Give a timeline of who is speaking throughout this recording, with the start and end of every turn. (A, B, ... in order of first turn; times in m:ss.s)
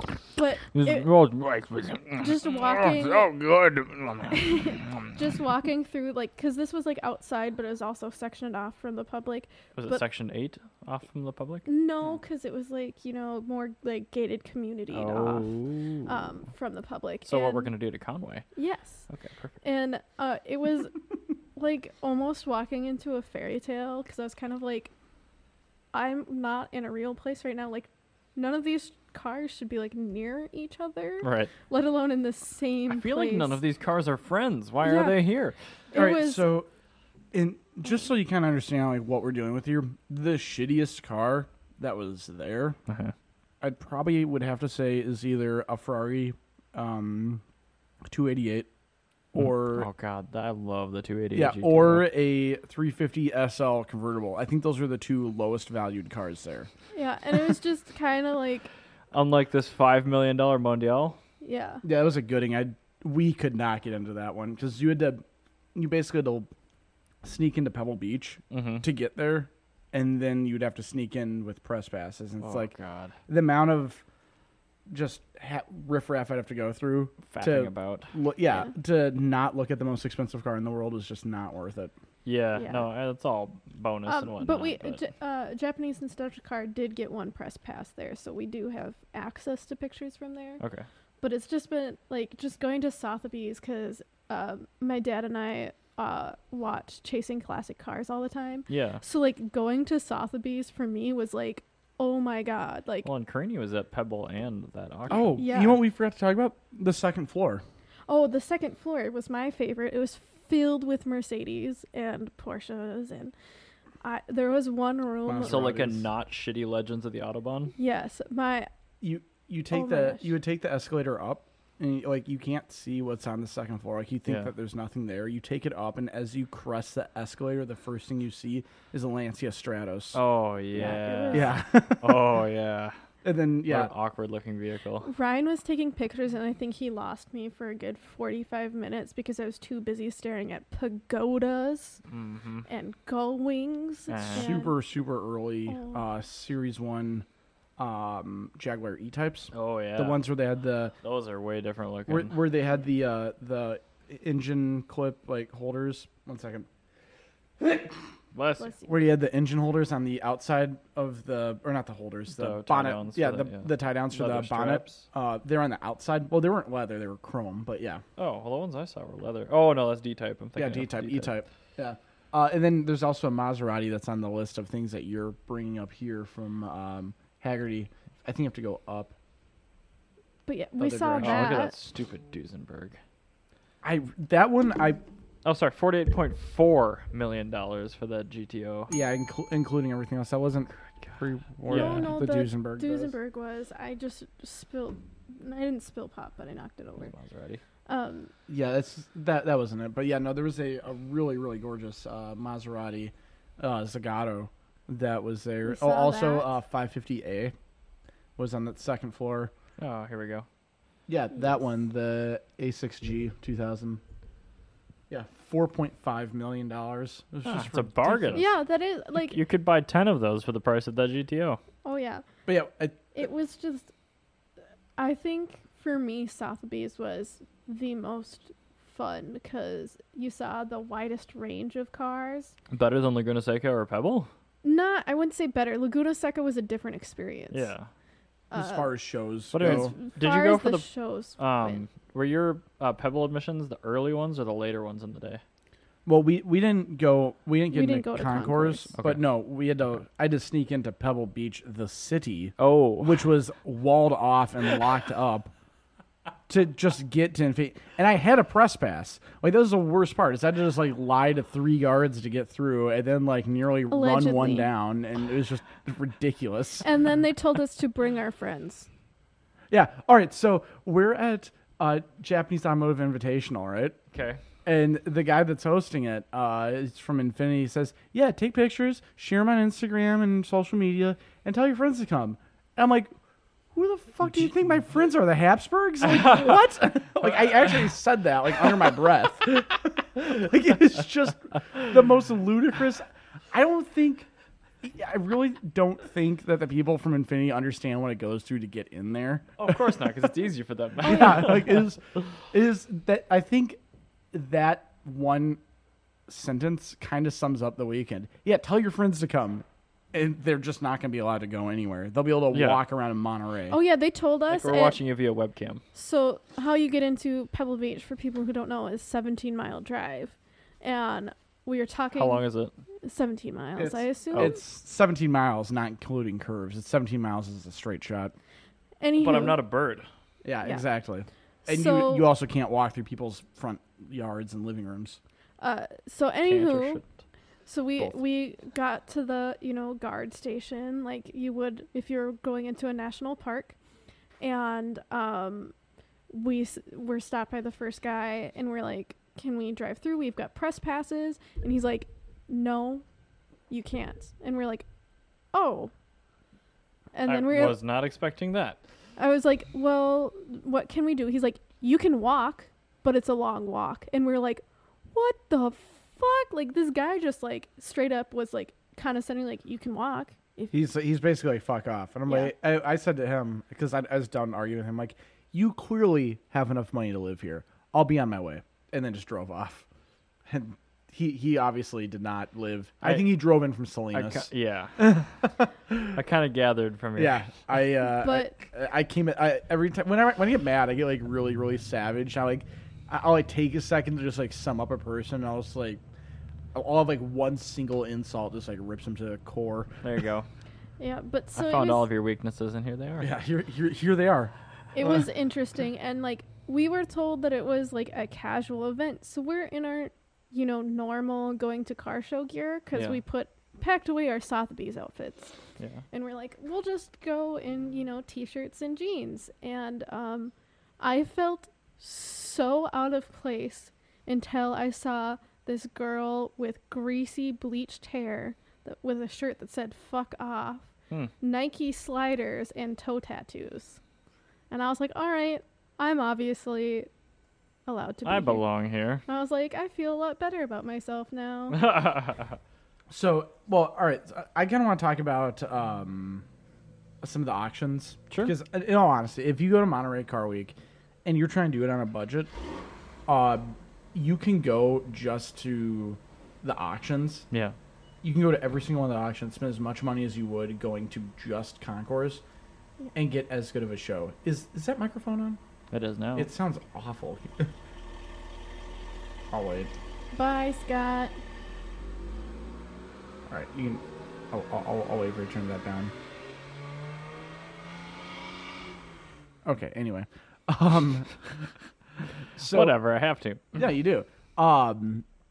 0:00.4-0:01.1 A
0:00.7-0:05.2 B
0:02.2-0:03.3 A
0:04.3-0:10.0 A
0:09.8-0:11.6 B
0:11.6-0:15.5 A
0:14.9-0:16.1 B
0:16.1-0:17.7 A
0:17.3-0:18.4 B
0:18.6-0:19.1 A
0:19.1-0:19.6 B
0:19.6-0:21.0 A
0:21.6-0:24.9 A
0:25.9-0:33.6 A
0:31.2-0:31.5 B
0:32.9-0:35.6 B
0:34.8-0:35.2 A
0:35.9-0:36.5 A
0:35.9-0:36.7 C
0:37.3-0:42.8 C
0:42.9-0:43.1 B
0:43.6-0:47.4 C
0:48.1-0:48.7 C
0:49.3-0:49.9 C
0:49.4-0:52.1 B
0:51.4-0:56.7 C
0:56.9-0:58.7 A
0:59.1-1:01.2 B
1:01.4-1:01.8 A
1:01.8-1:05.2 C
1:05.8-1:06.5 C
1:07.2-1:12.7 C
1:08.5-1:08.9 B
1:12.4-1:13.1 B
1:13.3-1:14.0 C
1:14.9-1:21.9 C
1:17.2-1:18.1 B
1:22.2-1:25.0 B
1:22.6-1:22.9 A
1:24.1-1:30.6 A
1:30.6-1:30.9 B
1:31.2-1:43.1 A
1:38.7-1:39.0 B
1:43.0-1:45.4 B
1:45.1-1:47.6 C
1:45.4-1:45.8 A
1:48.1-1:53.3 A
1:54.0-1:55.7 A
1:55.3-1:56.0 C
1:55.4-1:57.7 B
1:57.8-1:58.7 A
1:59.0-2:10.2 C
1:59.7-2:00.3 A
2:04.3-2:04.5 B
2:10.1-2:13.0 B
2:10.7-2:11.6 A
2:10.8-2:12.4 C
2:13.2-2:13.9 C
2:13.7-2:15.1 B
2:15.0-2:22.0 A
2:22.1-2:22.7 B
2:22.7-2:24.7 A
2:24.1-2:24.5 B
2:24.3-2:27.3 C
2:25.7-2:26.0 A
2:27.8-2:31.0 C
2:29.5-2:30.2 B
2:31.0-2:32.4 B
2:32.1-2:36.7 C
2:37.6-2:38.0 C
2:38.3-2:38.7 B
2:38.6-2:39.0 A
2:38.9-2:48.0 C
2:42.3-2:45.0 B
2:48.2-2:51.3 B
2:50.6-2:59.1 C
3:00.4-3:01.7 A
3:00.8-3:01.6 C
3:01.2-3:03.0 B
3:03.8-3:05.0 C
3:05.4-3:08.9 B
3:08.9-3:13.1 C
3:11.7-3:12.1 B
3:11.7-3:17.1 A
3:17.0-3:17.6 B
3:17.9-3:18.3 A
3:18.5-3:27.5 C
3:25.6-3:26.5 A
3:28.4-3:29.5 C
3:29.8-3:30.4 B
3:31.1-3:34.0 C
3:35.1-3:38.5 C
3:37.4-3:38.5 B
3:38.3-3:39.4 A
3:39.2-3:41.6 B
3:41.8-3:42.2 A
3:42.5-3:43.1 C
3:43.1-3:43.9 A
3:45.0-3:52.6 A
3:52.7-3:54.3 B
3:54.6-3:57.7 A
3:57.5-3:57.9 B
3:58.5-3:58.9 A
3:58.5-3:59.9 C
3:59.5-4:05.4 B
3:59.6-4:01.8 A
4:06.0-4:15.5 C
4:07.7-4:08.9 A
4:09.0-4:09.2 B
4:12.6-4:13.3 B
4:16.5-4:26.9 C
4:23.9-4:24.7 A
4:26.8-4:28.9 A
4:29.7-4:34.0 C
4:34.1-4:34.4 B
4:34.6-4:43.1 C
4:43.7-4:54.3 C
4:54.8-4:59.9 C
4:59.6-5:01.8 B
5:01.0-5:03.8 C
5:01.0-5:01.5 A
5:04.3-5:05.6 C
5:06.3-5:13.8 C
5:12.5-5:12.8 B
5:13.7-5:15.0 A
5:14.5-5:15.8 B
5:15.9-5:22.4 A
5:22.1-5:22.7 B
5:23.0-5:24.6 A
5:23.8-5:28.3 C
5:29.0-5:29.6 A
5:29.2-5:30.0 B
5:30.4-5:35.2 C
5:31.7-5:32.3 A
5:35.6-5:37.0 A
5:36.4-5:37.0 B
5:37.7-5:43.8 A
5:44.4-5:45.7 A
5:46.3-5:53.0 A
5:53.7-5:54.9 A
5:55.5-5:55.9 A
5:57.1-5:57.8 A
5:57.3-5:58.8 B
5:59.2-6:10.7 A
6:10.7-6:19.9 C
6:12.3-6:12.5 A
6:20.5-6:26.2 C
6:23.0-6:23.3 B
6:24.1-6:25.2 B
6:26.1-6:27.4 B
6:27.2-6:36.0 C
6:28.1-6:28.6 A
6:36.7-6:40.0 C
6:40.0-6:40.4 B
6:41.0-6:42.1 A
6:41.6-6:43.3 B
6:43.2-6:45.2 C
6:45.0-6:55.6 A
6:52.9-6:53.2 B
6:56.1-7:10.9 A
7:11.4-7:14.0 A
7:14.7-7:17.1 A
7:17.9-7:18.6 A
7:18.2-7:19.2 B
7:19.3-7:22.0 A
7:21.7-7:22.6 B
7:23.1-7:26.4 C
7:27.2-7:32.5 C
7:33.3-7:37.5 C
7:37.5-7:37.8 B
7:38.2-7:42.4 C
7:43.1-7:45.6 C
7:45.9-7:46.5 B
7:46.4-7:47.7 C
7:49.5-7:49.9 C
7:50.3-7:51.3 A
7:53.5-7:56.1 C
7:59.6-8:01.7 C
8:02.6-8:03.0 C
8:02.6-8:03.8 B
8:03.7-8:05.2 C